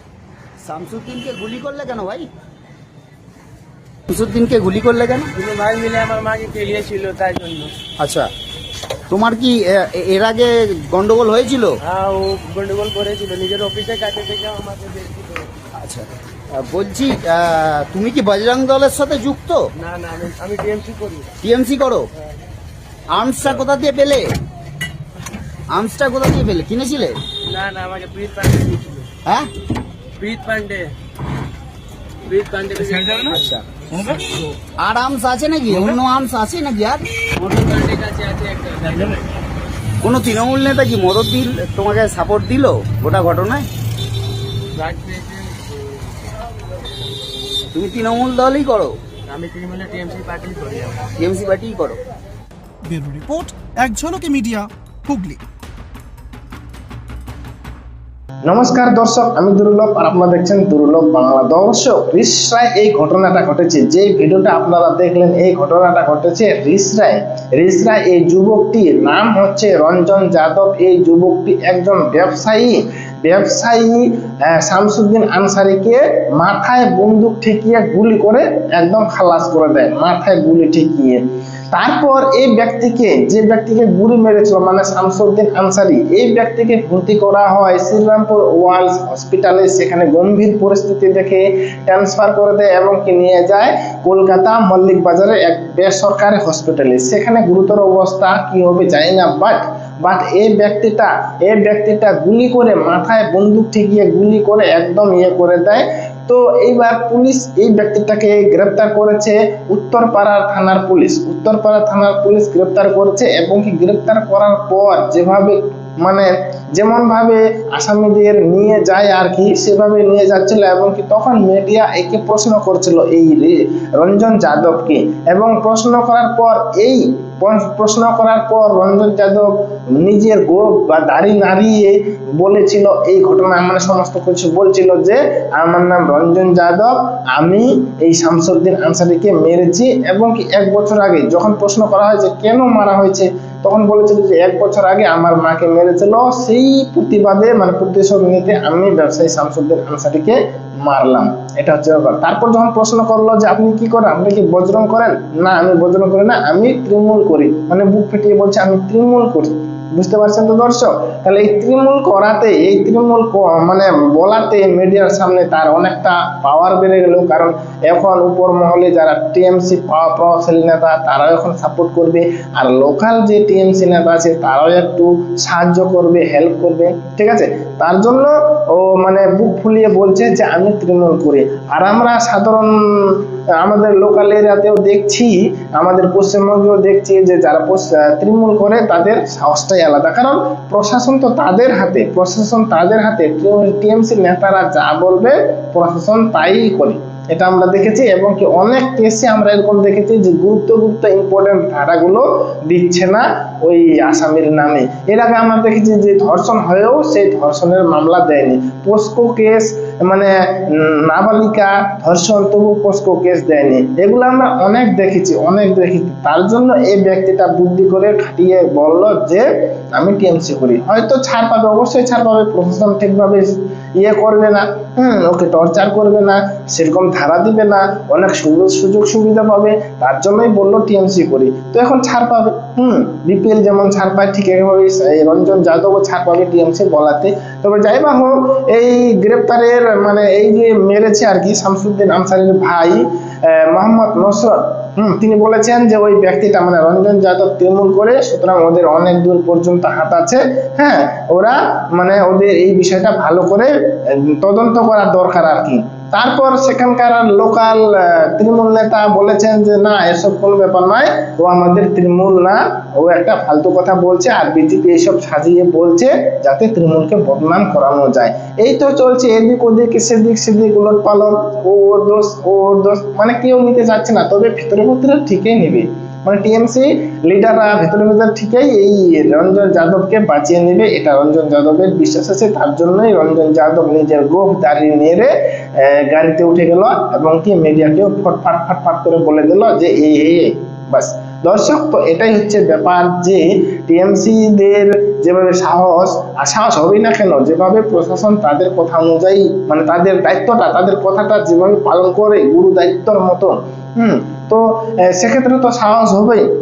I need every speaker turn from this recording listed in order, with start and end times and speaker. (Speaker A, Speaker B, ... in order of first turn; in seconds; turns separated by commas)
Speaker A: 0.6-2.2, Speaker A: 4.1-5.3, Speaker B: 5.3-7.7, Speaker A: 8.0-8.3, Speaker A: 9.1-11.8, Speaker B: 11.8-15.5, Speaker A: 15.8-19.7, Speaker B: 19.8-21.3, Speaker A: 21.4-22.1, Speaker A: 23.1-24.4, Speaker A: 25.7-27.2, Speaker B: 27.4-29.1, Speaker A: 29.2-29.5, Speaker B: 30.2-30.9, Speaker B: 32.2-33.6, Speaker A: 33.4-37.0, Speaker B: 37.4-39.3, Speaker A: 40.0-43.7, Speaker B: 44.7-45.9, Speaker A: 47.7-49.0, Speaker B: 49.3-51.1, Speaker A: 51.2-52.0, Speaker C: 52.8-55.4, Speaker D: 58.5-81.2, Speaker D: 81.7-219.4, Speaker D: 219.9-243.0, Speaker D: 243.5-253.7, Speaker D: 254.3-306.4